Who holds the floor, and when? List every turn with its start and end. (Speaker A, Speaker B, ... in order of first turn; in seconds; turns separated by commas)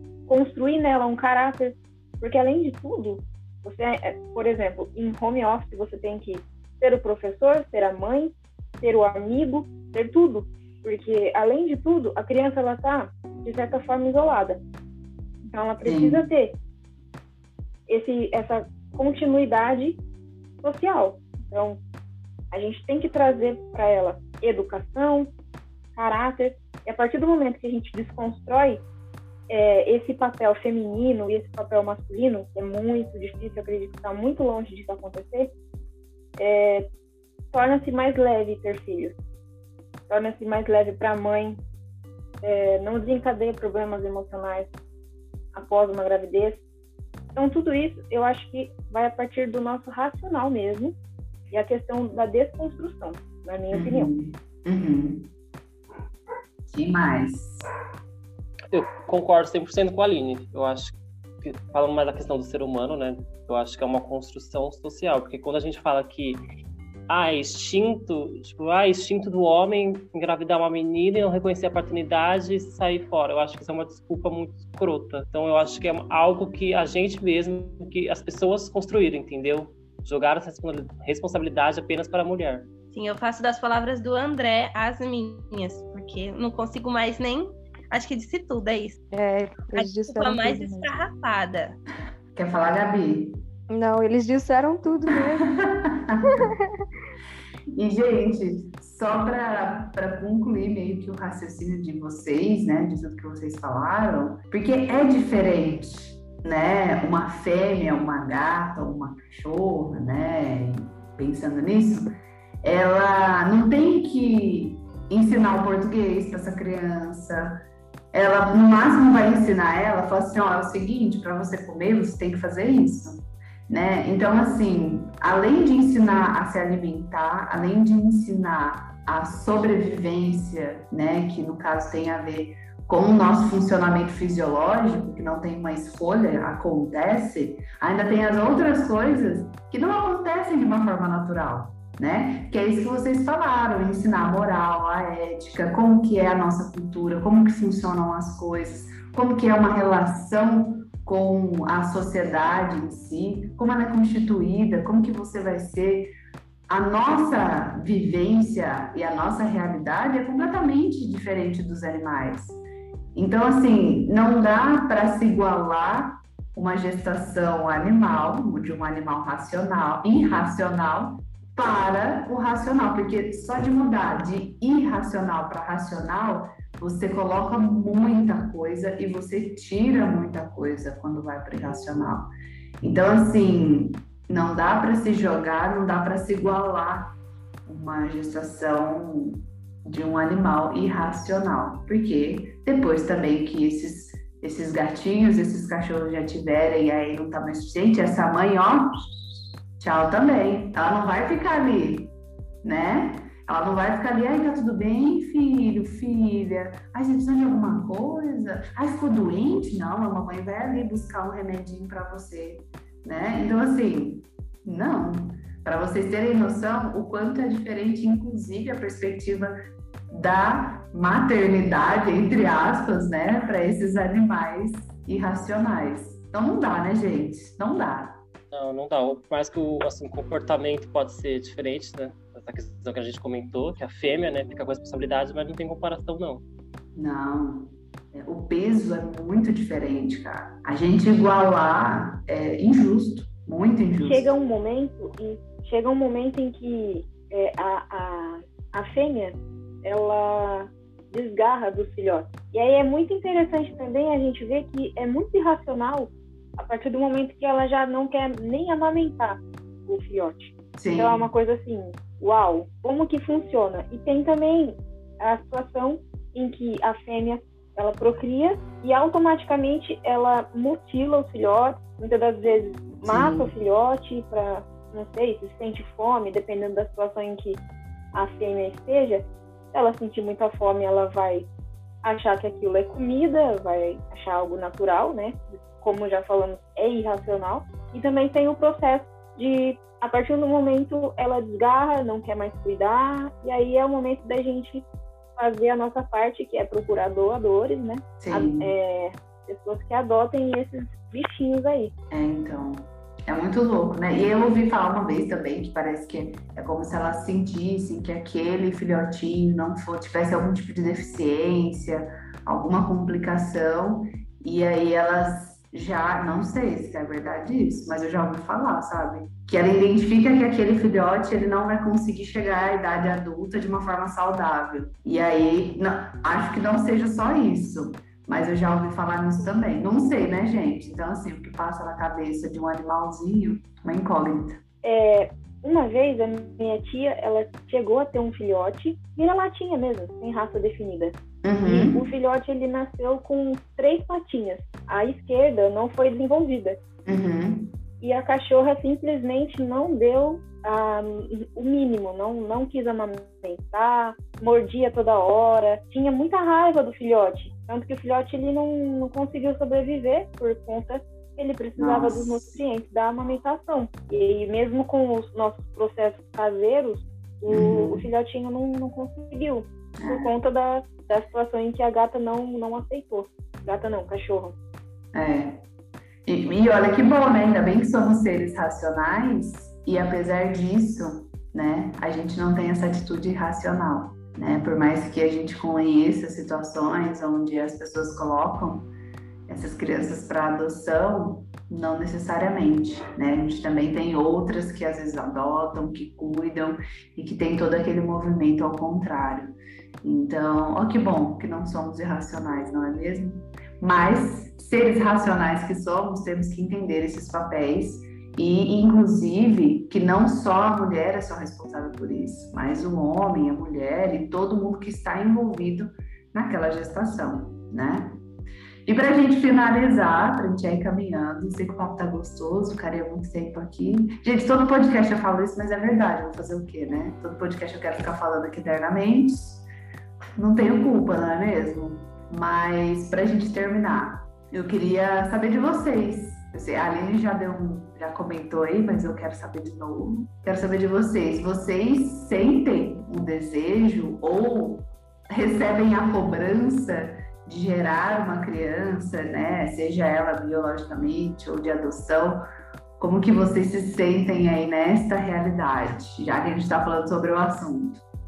Speaker A: 0.3-14.6, Speaker A: 15.4-16.6, Speaker B: 15.8-16.2, Speaker A: 17.9-20.0, Speaker A: 20.6-21.8, Speaker A: 22.5-25.3, Speaker A: 25.9-28.8, Speaker A: 29.5-35.5, Speaker A: 36.4-36.9, Speaker A: 37.5-39.1, Speaker A: 40.1-41.6, Speaker A: 42.4-44.7, Speaker A: 45.5-46.6, Speaker A: 47.4-51.0, Speaker A: 51.5-54.1, Speaker B: 53.7-55.3, Speaker B: 56.7-57.7, Speaker C: 58.7-66.4, Speaker C: 67.1-82.7, Speaker D: 82.9-89.0, Speaker E: 89.1-91.0, Speaker D: 89.7-91.8, Speaker B: 92.3-93.4, Speaker E: 93.7-95.5, Speaker B: 95.1-96.5, Speaker E: 96.2-96.5, Speaker B: 97.7-112.1, Speaker B: 112.6-117.6, Speaker B: 118.1-156.1, Speaker B: 156.7-162.6, Speaker B: 163.1-182.3, Speaker B: 182.8-187.1, Speaker B: 187.7-202.1, Speaker B: 202.6-219.5, Speaker B: 220.1-228.2, Speaker C: 228.5-236.4, Speaker B: 236.9-244.3, Speaker A: 244.0-277.6, Speaker B: 260.8-261.3, Speaker B: 273.0-273.5, Speaker A: 278.1-281.5, Speaker A: 282.0-294.9, Speaker A: 295.4-301.9, Speaker B: 298.2-298.7, Speaker B: 302.1-334.6, Speaker A: 334.8-346.8, Speaker B: 341.4-342.0, Speaker B: 347.1-347.8, Speaker A: 348.0-374.5, Speaker B: 361.8-362.6, Speaker B: 367.5-368.1, Speaker B: 370.0-370.3, Speaker B: 375.1-375.6, Speaker B: 376.2-388.9, Speaker B: 389.5-418.2, Speaker B: 418.9-429.7, Speaker B: 430.4-452.4, Speaker B: 453.0-458.0